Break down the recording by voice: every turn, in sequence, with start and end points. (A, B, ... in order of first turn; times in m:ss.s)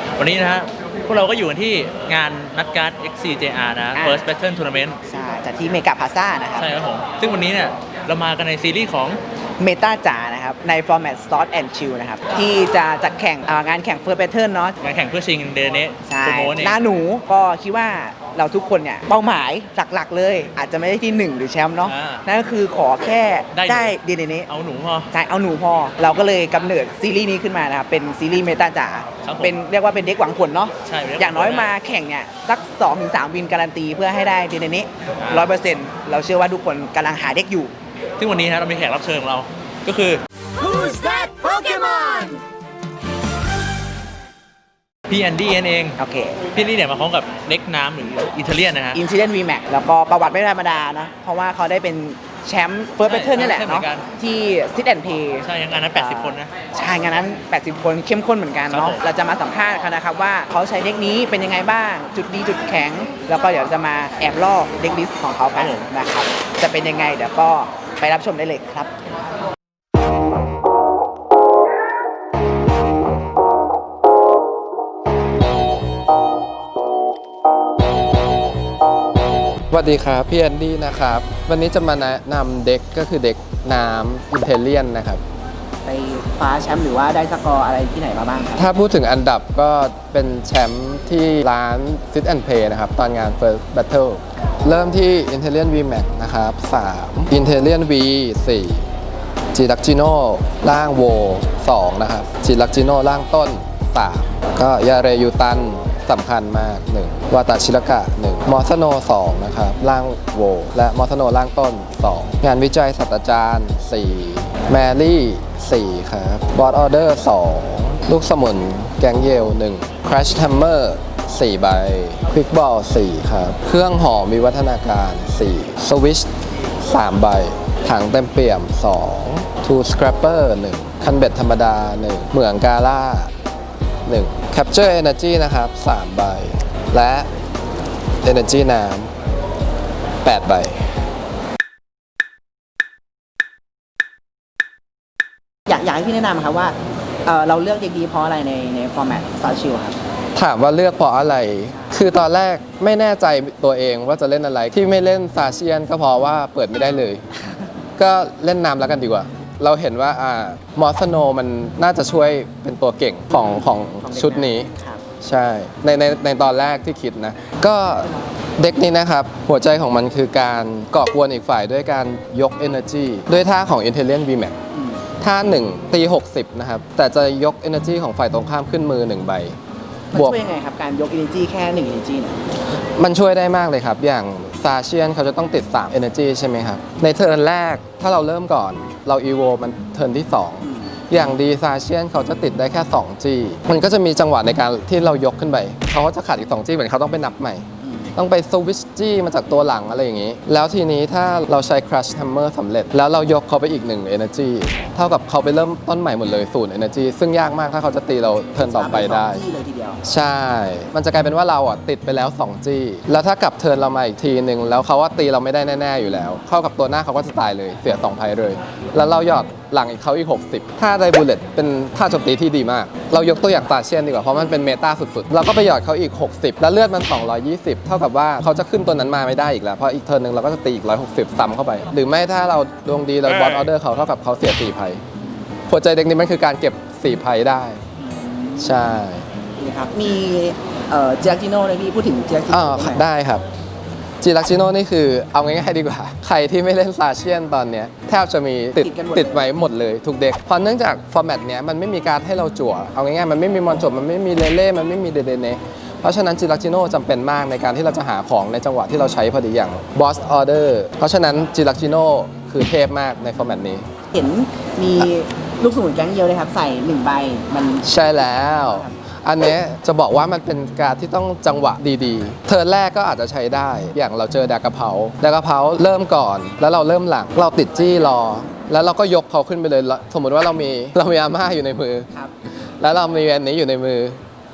0:00.2-0:05.0 A
0:04.0-0:04.2 B
0:05.1-0:06.7 B
0:06.6-0:09.2 A
0:09.6-0:14.8 B
0:14.8-0:16.8 A
0:16.0-0:24.5 B
0:21.8-0:22.2 A
0:23.5-0:24.0 A
0:24.5-0:25.1 A
0:25.1-0:37.7 B
0:29.2-0:29.6 A
0:30.8-0:31.7 A
0:35.2-0:35.5 A
0:38.2-0:42.4 A
0:45.1-0:49.0 A
0:46.0-0:46.4 B
0:48.9-1:08.9 B
0:53.0-0:54.1 A
0:55.4-0:56.5 A
0:58.7-0:59.0 A
1:05.5-1:05.9 A
1:19.7-1:25.2 C
1:25.8-1:28.7 B
1:28.6-1:38.9 C
1:39.5-2:13.3 C
2:14.1-2:17.3 C
2:18.2-2:19.1 C
2:20.2-2:20.9 C
2:25.7-2:30.0 B
2:30.4-2:37.2 C
2:31.7-2:32.1 B
2:38.0-2:44.7 C
2:43.3-2:45.0 B
2:45.2-2:54.6 C
2:54.7-2:55.0 B
2:55.2-2:59.6 C
3:00.1-3:02.4 B
3:00.1-3:00.4 C
3:03.0-3:29.4 C
3:10.6-3:10.9 B
3:17.8-3:18.1 B
3:28.6-3:30.0 B
3:30.0-3:55.0 C
3:55.7-3:57.8 C
3:58.0-3:59.0 B
3:58.6-3:59.3 C
3:59.6-4:03.0 B
4:02.5-4:03.4 C
4:04.2-4:23.8 C
4:08.8-4:09.5 B
4:24.1-4:28.9 B
4:27.8-4:42.1 C
4:42.8-4:44.2 C